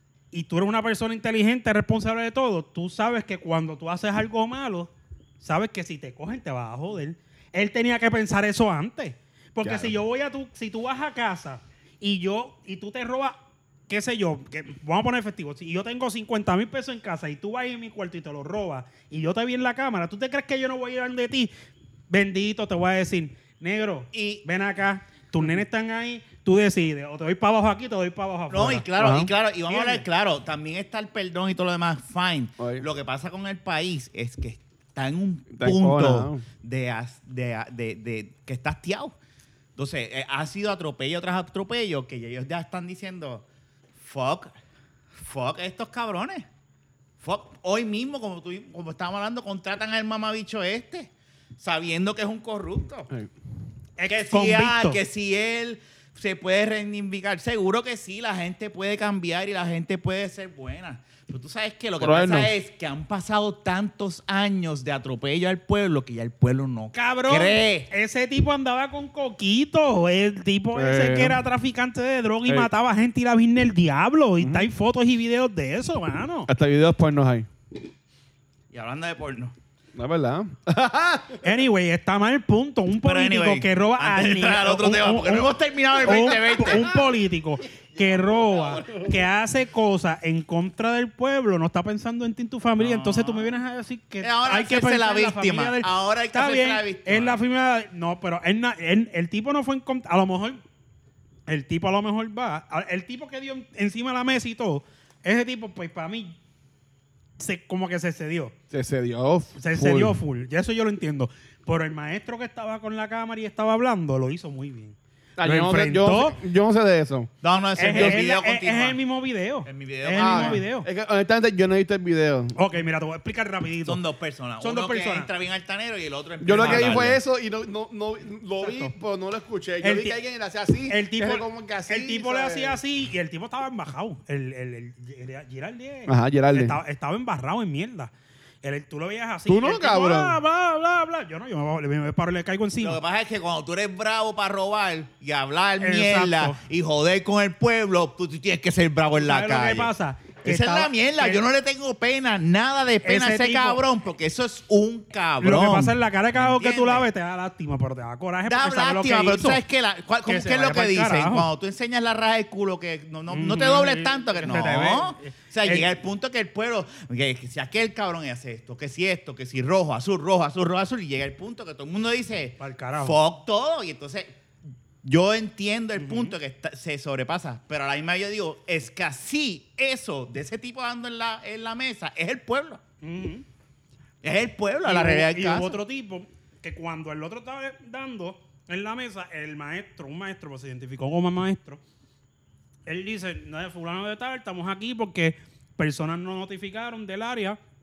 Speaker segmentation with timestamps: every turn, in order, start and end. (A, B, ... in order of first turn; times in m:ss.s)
0:00.3-0:13.4 A
0:09.6-0:09.9 B
0:13.9-0:21.5 A
0:22.1-0:28.8 A
0:24.1-0:24.4 C
0:28.5-0:39.1 C
0:29.0-0:29.3 B
0:29.7-0:30.0 A
0:32.6-0:32.8 B
0:35.5-0:36.4 B
0:39.8-0:43.4 C
0:44.0-0:44.5 C
0:45.2-0:46.4 C
0:47.2-0:53.1 C
0:54.0-0:55.0 A
0:54.1-1:07.9 C
1:02.0-1:02.5 B
1:06.9-1:16.5 A
1:10.7-1:11.4 B
1:14.4-1:14.7 B
1:16.5-1:17.5 B
1:18.7-1:19.5 C
1:20.0-1:21.4 B
1:21.4-1:40.6 A
1:23.0-1:26.9 C
1:32.8-1:33.6 C
1:34.2-1:37.4 C
1:41.5-1:46.4 A
1:47.4-1:48.5 A
1:48.7-1:50.2 B
1:49.6-1:56.4 A
1:55.4-1:57.3 B
1:57.4-1:59.0 C
1:57.8-2:00.9 A
1:57.9-1:58.2 B
1:59.6-2:00.6 C
2:00.2-2:02.6 B
2:02.6-2:04.0 A
2:03.8-2:07.2 C
2:04.6-2:05.3 A
2:06.4-2:12.8 B
2:06.6-2:07.0 A
2:08.6-2:08.9 A
2:09.8-2:10.2 A
2:10.9-2:18.1 A
2:16.1-2:16.8 B
2:18.6-2:23.0 A
2:19.5-2:20.4 B
2:22.8-2:29.9 C
2:25.8-2:26.6 A
2:29.2-2:31.4 A
2:30.4-2:37.1 C
2:33.0-2:33.8 A
2:35.4-2:39.6 A
2:38.4-2:54.3 C
2:40.2-2:41.5 A
2:43.3-2:45.9 A
2:52.6-2:53.2 A
2:55.0-3:02.8 C
2:56.0-2:56.3 A
3:03.0-3:03.4 A
3:04.2-3:05.8 C
3:04.8-3:11.8 A
3:12.8-3:17.6 A